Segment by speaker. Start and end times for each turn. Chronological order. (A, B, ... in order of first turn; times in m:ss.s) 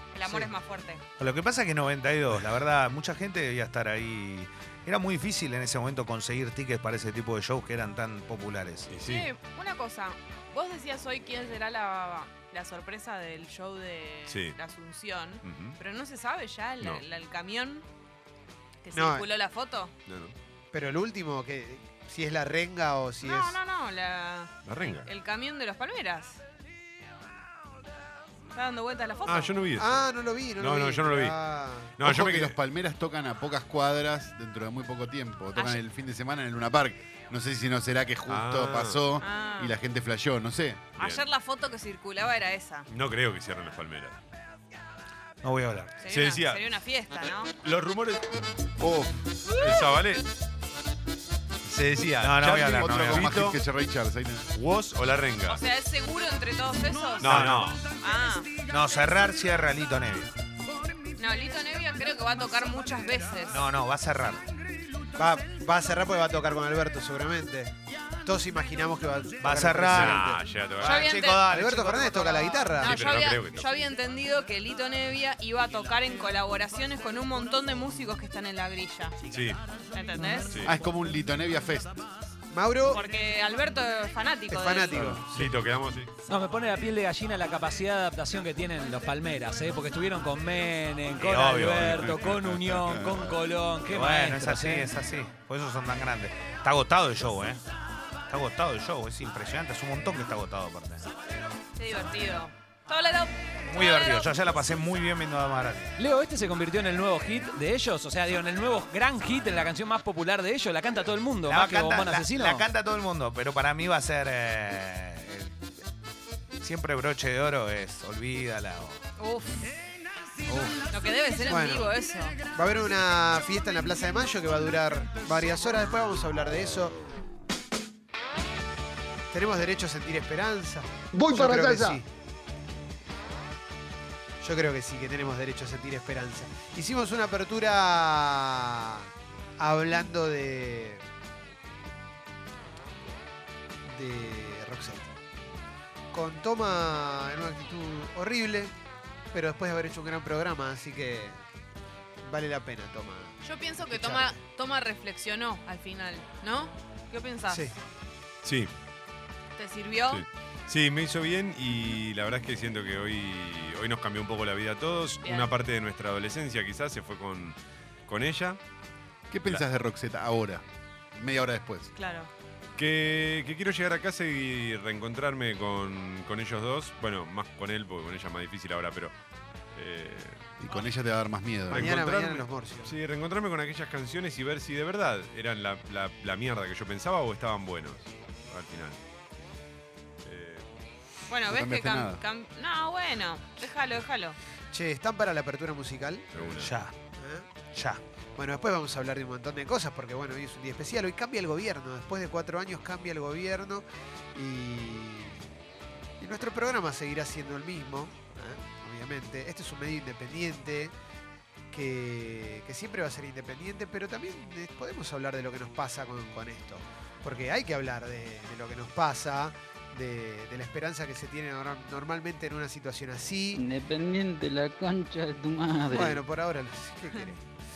0:00.1-0:01.0 A
0:01.2-0:08.9 B
0:08.9-0:09.3 C
0:09.0-0:17.8 A
0:14.3-0:14.6 C
0:15.4-0:15.8 C
0:18.8-0:19.9 A
0:18.9-0:19.2 D
0:20.1-0:20.3 C
0:20.7-0:23.6 D
0:23.2-0:26.4 A
0:24.6-0:25.1 C
0:28.5-0:29.6 A
0:29.2-0:30.0 C
0:29.8-0:31.9 D
0:30.6-0:31.4 C
0:31.9-0:32.6 C
0:32.0-0:40.8 E
0:35.6-0:35.8 A
0:38.3-0:39.0 C
0:39.2-0:39.7 A
0:41.0-0:42.9 A
0:41.0-0:41.2 C
0:42.9-0:44.2 C
0:45.4-0:45.9 B
0:46.0-0:47.5 A
0:46.1-0:46.6 C
0:47.6-0:48.2 C
0:48.8-0:49.2 E
0:49.5-0:50.2 C
0:49.5-0:49.9 A
0:51.6-0:53.6 C
0:52.2-0:53.3 B
0:52.6-0:54.5 E
0:54.5-0:55.6 C
0:55.5-0:58.5 A
0:57.2-0:57.8 C
0:57.2-0:57.8 B
0:58.7-1:00.3 B
1:01.2-1:03.6 A
1:03.5-1:04.4 B
1:05.1-1:07.7 D
1:08.2-1:10.4 D
1:09.4-1:12.8 B
1:09.9-1:11.1 C
1:10.8-1:11.5 A
1:11.4-1:13.0 D
1:12.6-1:19.2 A
1:12.8-1:13.7 C
1:19.3-1:19.6 C
1:19.9-1:20.5 A
1:20.5-1:20.8 C
1:20.6-1:22.0 E
1:22.5-1:23.0 D
1:22.9-1:25.1 A
1:24.5-1:25.5 D
1:24.9-1:25.2 E
1:25.3-1:26.1 C
1:26.3-1:34.9 F
1:31.2-1:32.2 B
1:32.8-1:33.4 E
1:33.8-1:37.6 B
1:38.3-1:41.0 B
1:41.8-1:44.3 A
1:43.6-1:45.9 B
1:46.0-1:52.6 F
1:51.5-1:55.5 B
1:56.6-1:59.0 B
1:59.2-1:59.7 A
2:00.5-2:00.9 B
2:00.9-2:02.4 A
2:01.4-2:01.9 D
2:02.5-2:07.0 D
2:09.3-2:12.0 D
2:14.4-2:21.0 D
2:23.8-2:25.1 D
2:26.1-2:28.7 D
2:29.3-2:31.4 D
2:32.2-2:34.4 D
2:33.4-2:37.6 A
2:37.5-2:37.8 D
2:38.4-2:38.7 C
2:39.6-2:40.2 A
2:40.1-2:48.6 C
2:45.2-2:45.5 A
2:49.3-2:51.9 E
2:51.9-2:52.3 A
2:52.8-2:59.1 C
2:59.7-3:00.5 C
3:00.6-3:02.0 E
3:01.7-3:09.0 C
3:01.7-3:03.0 D
3:10.2-3:10.6 C
3:11.3-3:14.4 A
3:11.5-3:12.2 E
3:14.7-3:16.3 D
3:16.3-3:16.7 C
3:16.6-3:17.0 B
3:17.2-3:17.4 D
3:17.7-3:18.0 B
3:18.4-3:25.4 D
3:26.2-3:30.9 D
3:31.7-3:43.6 D
3:43.6-3:46.2 G
3:45.9-3:47.4 D